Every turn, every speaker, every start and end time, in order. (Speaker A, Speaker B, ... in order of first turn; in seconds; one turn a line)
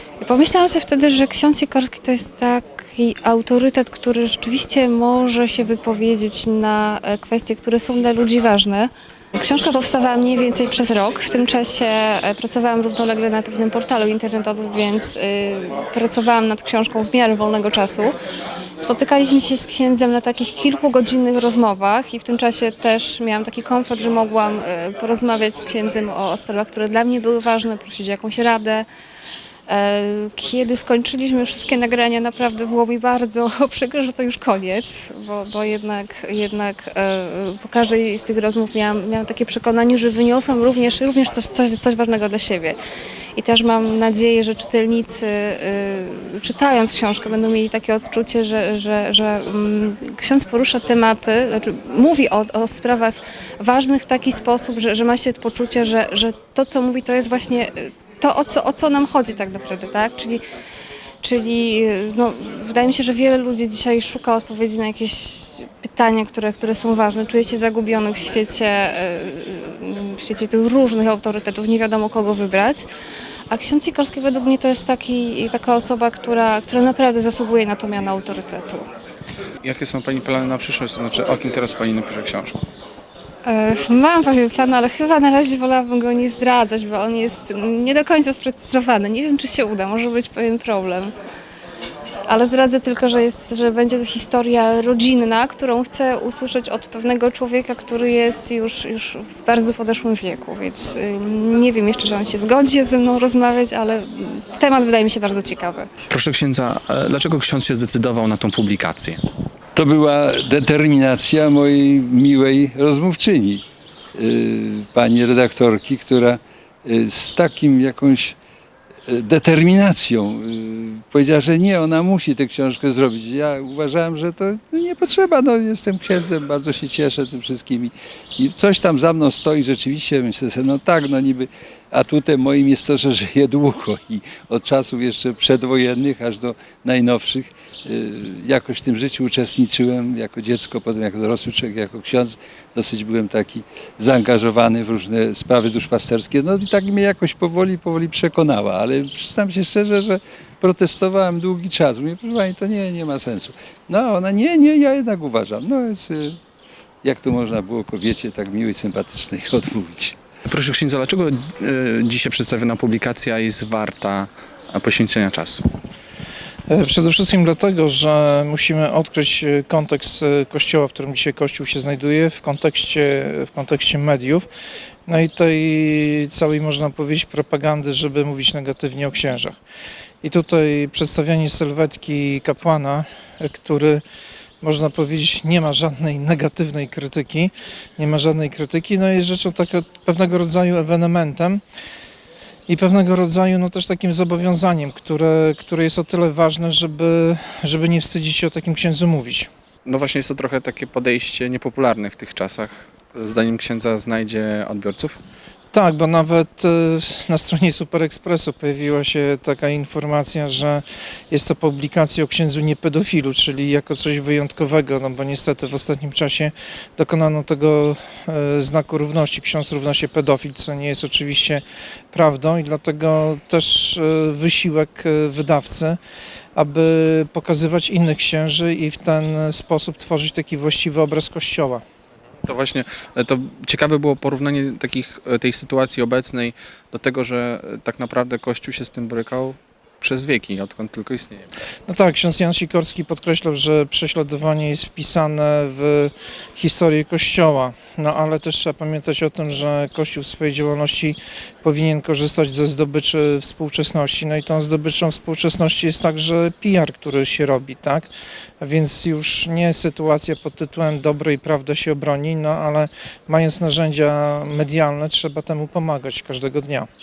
Speaker A: 0.2-18.1
Speaker A: 18.8-28.9
Speaker A: 29.7-42.8
Speaker A: 43.4-60.4
Speaker A: 61.2-72.9
Speaker A: 73.5-78.9
Speaker B: 79.6-82.6
Speaker A: 83.4-91.1
Speaker A: 92.3-105.9
Speaker B: 106.1-109.2
Speaker C: 109.8-113.6
Speaker C: 114.2-118.3
Speaker C: 119.1-156.4
Speaker C: 157.0-160.2
Speaker B: 160.5-165.6
Speaker D: 166.7-174.5
Speaker D: 175.1-179.6
Speaker D: 180.2-184.0
Speaker D: 184.6-191.6
Speaker D: 192.7-199.5
Speaker B: 199.8-205.2
Speaker D: 205.7-226.0
Speaker D: 226.5-231.8
Speaker B: 232.4-241.5
Speaker D: 241.9-266.9